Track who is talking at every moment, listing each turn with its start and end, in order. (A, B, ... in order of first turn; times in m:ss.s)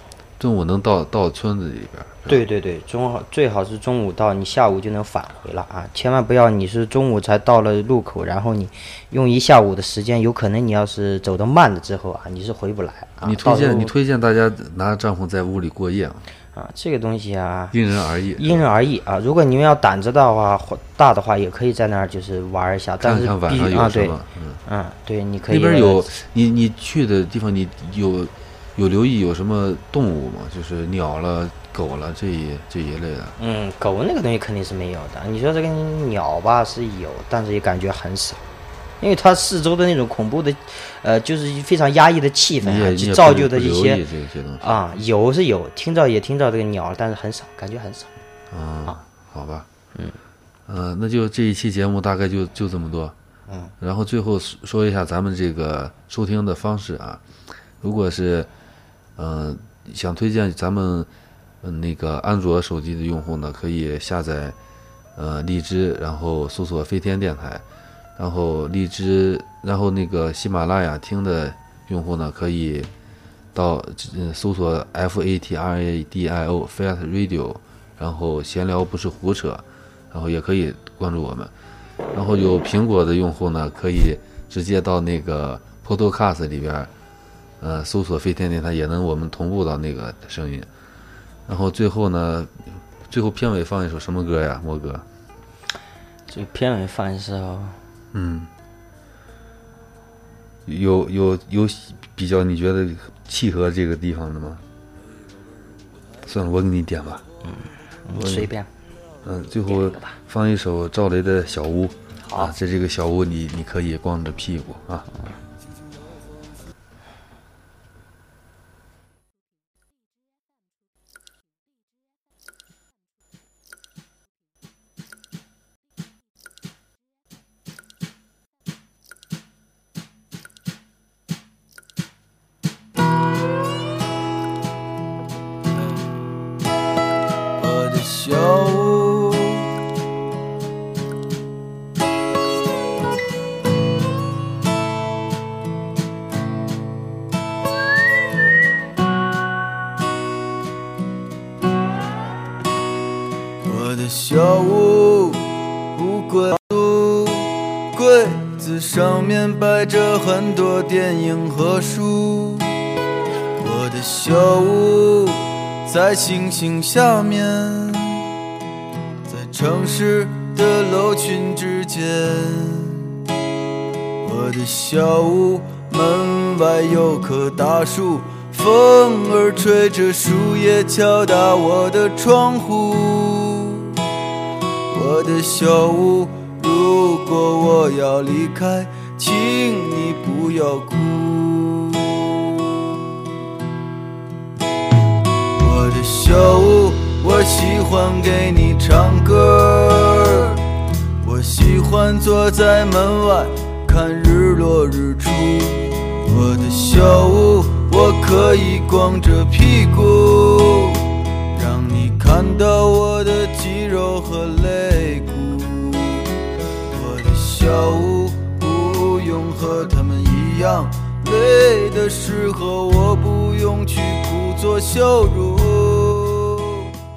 0:00.4-0:02.4 A
0:02.3-0:13.9 B
0:13.2-0:16.3 A
0:16.6-0:17.8 B
0:17.7-0:18.6 A
0:18.4-0:26.1 B
0:23.0-0:24.6 A
0:25.5-0:33.4 A
0:33.4-0:38.4 B
0:39.0-0:44.0 B
0:42.6-0:44.7 A
0:44.6-0:48.1 B
0:48.5-0:49.7 A
0:50.7-0:53.1 A
0:53.5-0:53.7 B
0:53.8-0:57.2 A
0:57.8-0:58.5 A
0:59.2-1:01.1 A
1:01.6-1:04.6 A
1:05.1-1:07.6 A
1:08.2-1:12.9 A
1:13.5-1:21.5 A
1:22.1-1:26.9 A
1:27.6-1:30.7 A
1:31.5-1:35.0 A
1:36.3-1:37.8 B
1:38.1-1:38.5 A
1:40.7-1:44.6 A
1:46.2-1:47.2 A
1:47.4-1:48.7 B
1:48.1-1:48.5 A
1:49.2-1:55.1 A
1:49.7-1:50.2 B
1:52.2-1:52.5 B
2:17.6-2:19.7 C
2:33.6-2:42.8 C
2:43.6-2:48.3 C
2:49.3-2:53.2 C
2:54.2-3:04.0 C
3:04.9-3:12.8 C
3:15.6-3:20.6 C
3:21.2-3:36.3 C
3:36.9-3:47.0 C